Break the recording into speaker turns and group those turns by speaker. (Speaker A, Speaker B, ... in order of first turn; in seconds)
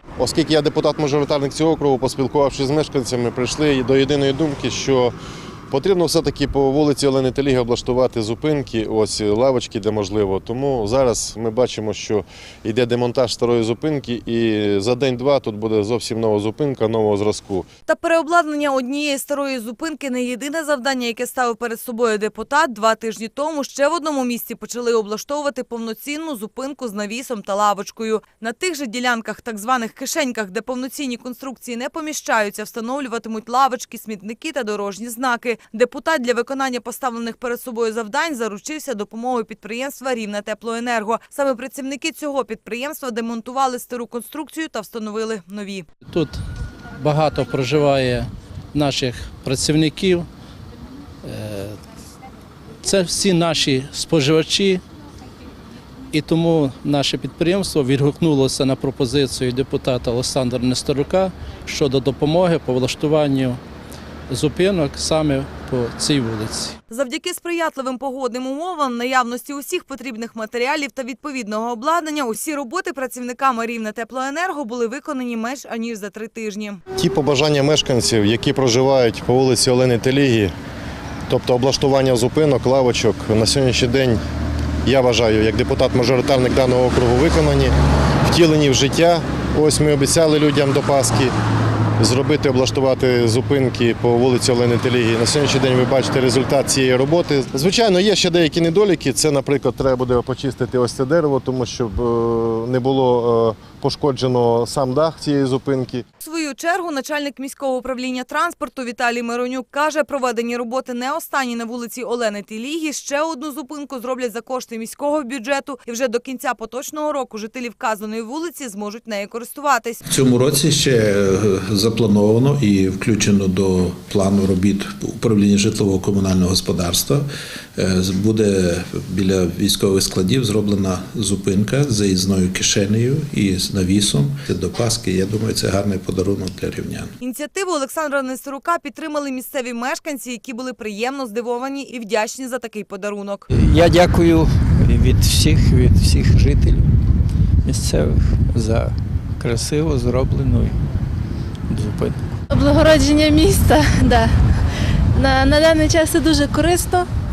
Speaker A: 0.2-5.1, 5.7-17.7, 77.0-80.5, 81.3-84.2, 84.8-87.7, 88.2-91.3, 92.0-106.0
Speaker B: 17.9-45.9, 66.9-76.8, 106.2-120.0, 137.2-143.5
Speaker C: 46.1-46.4, 47.0-50.3, 51.2-51.8, 52.8-54.8, 56.1-63.6, 64.3-66.8
Speaker D: 120.0-137.1
Speaker E: 143.5-146.9, 147.6-150.8, 151.7-152.4
Speaker F: 152.5-154.3, 155.1-157.1